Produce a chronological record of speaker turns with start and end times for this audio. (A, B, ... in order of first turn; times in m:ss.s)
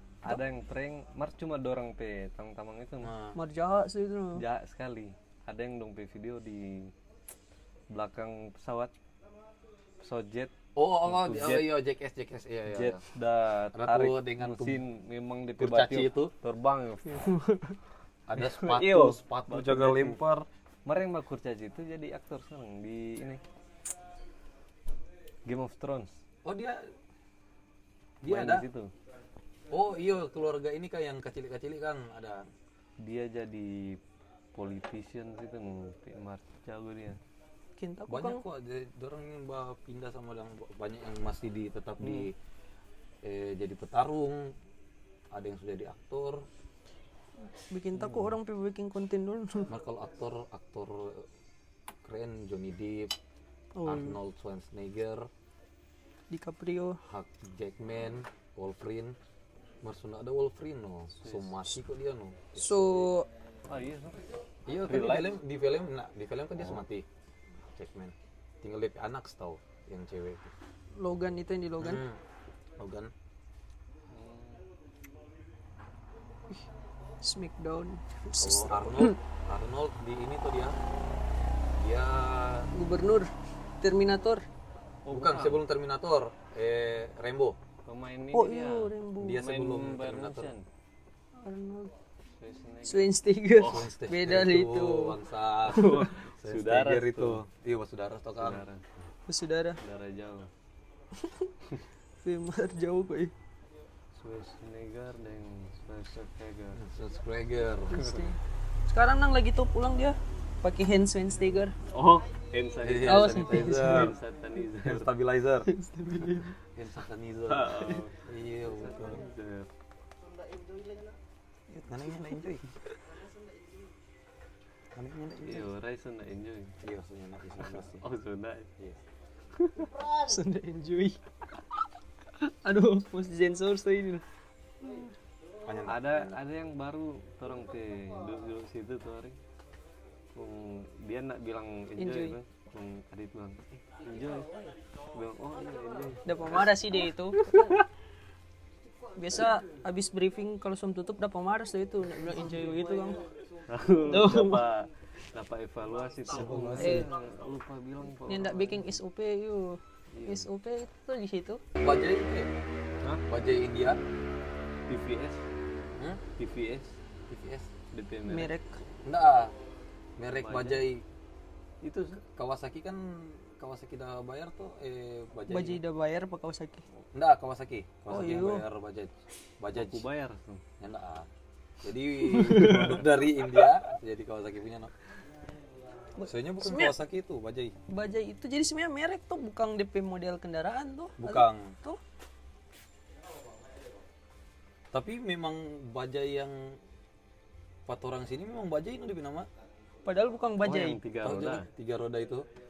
0:00.2-0:03.1 A
0:03.0-0:03.4 B
0:03.4-0:04.4 C
0:04.4-0:06.9 A
0:07.9-0:08.9 A
0:10.0-0:10.5 A
0:10.8-0:13.0 B
0:11.0-0:11.7 A
0:12.7-0:17.3 A
0:13.7-0:14.8 B
0:15.6-0:16.3 B
0:17.1-0:17.8 C
0:18.3-0:20.5 B
0:18.4-0:20.2 A
0:20.9-0:23.4 A
0:25.5-0:26.2 A
0:26.4-0:26.8 B
0:28.2-0:28.7 B
0:28.2-0:28.9 A
0:29.7-0:32.5 B
0:33.0-0:34.0 A
0:34.6-0:37.2 A
0:37.8-0:38.4 C
0:38.1-0:42.3 B
0:42.0-0:42.3 A
0:43.2-0:44.5 B
0:45.3-0:46.5 B
0:47.6-0:49.7 C
0:49.7-0:51.3 B
0:52.0-0:53.1 B
0:53.8-0:54.2 C
0:53.8-0:55.3 B
0:56.3-0:57.0 C
0:57.0-0:59.2 B
0:59.8-1:03.1 B
1:01.2-1:01.5 A
1:02.6-1:03.3 C
1:03.7-1:04.2 A
1:04.7-1:07.1 B
1:04.9-1:05.4 A
1:07.6-1:10.5 B
1:11.0-1:12.0 C
1:11.8-1:12.2 B
1:12.8-1:13.1 B
1:14.1-1:14.6 A
1:17.2-1:19.2 C
1:18.4-1:20.8 B
1:21.8-1:22.7 B
1:22.7-1:24.4 C
1:25.0-1:25.6 A
1:25.1-1:27.6 B
1:27.9-1:30.6 A
1:28.3-1:29.4 C
1:29.2-1:30.5 B
1:31.4-1:31.9 C
1:32.4-1:33.9 A
1:32.8-1:35.2 C
1:33.6-1:38.6 B
1:35.7-1:37.4 A
1:35.7-1:36.1 C
1:38.4-1:39.1 A
1:39.3-1:39.8 C
1:39.8-1:40.5 A
1:41.2-1:41.5 C
1:42.2-1:43.3 C
1:44.2-1:46.8 A
1:46.8-1:48.0 B
1:47.9-1:51.7 C
1:51.9-1:55.1 A
1:52.8-1:54.2 B
1:53.0-1:54.1 C
1:54.8-1:55.7 B
1:55.6-1:56.6 C
1:56.8-1:59.2 B
1:57.5-1:59.7 A
2:01.7-2:02.7 B
2:05.0-2:05.7 B
2:05.4-2:06.8 A
2:06.8-2:08.0 B
2:07.5-2:08.7 A
2:09.6-2:11.2 C
2:12.4-2:14.2 C
2:15.6-2:16.4 B
2:15.8-2:19.4 A
2:20.4-2:24.5 A
2:22.0-2:22.4 C
2:25.1-2:27.8 A
2:26.3-2:27.8 C
2:29.2-2:33.2 C
2:33.7-2:38.9 A
2:34.1-2:34.6 C
2:36.3-2:37.1 B
2:36.8-2:37.1 C
2:38.3-2:41.6 C
2:40.1-2:40.5 A
2:41.8-2:42.5 B
2:43.3-2:44.0 B
2:44.9-2:45.4 A
2:46.0-2:46.2 B
2:46.4-2:46.9 A
2:47.3-2:47.7 B
2:47.9-2:48.5 A
2:48.3-2:48.8 C
2:49.0-2:49.5 B
2:50.2-2:51.0 B
2:50.4-2:50.8 A
2:51.8-2:52.2 A
2:52.2-2:55.8 B
2:55.5-2:56.8 C
2:57.1-3:00.0 B
2:58.1-2:58.6 C
2:59.7-3:00.6 A
3:00.8-3:01.3 B
3:01.8-3:04.9 B
3:02.2-3:03.0 C
3:06.2-3:06.9 C
3:06.2-3:07.7 B
3:07.9-3:12.0 C
3:11.2-3:11.7 B
3:14.9-3:16.8 B
3:17.9-3:19.5 B
3:20.0-3:21.0 C
3:20.6-3:21.7 A
3:21.2-3:22.5 B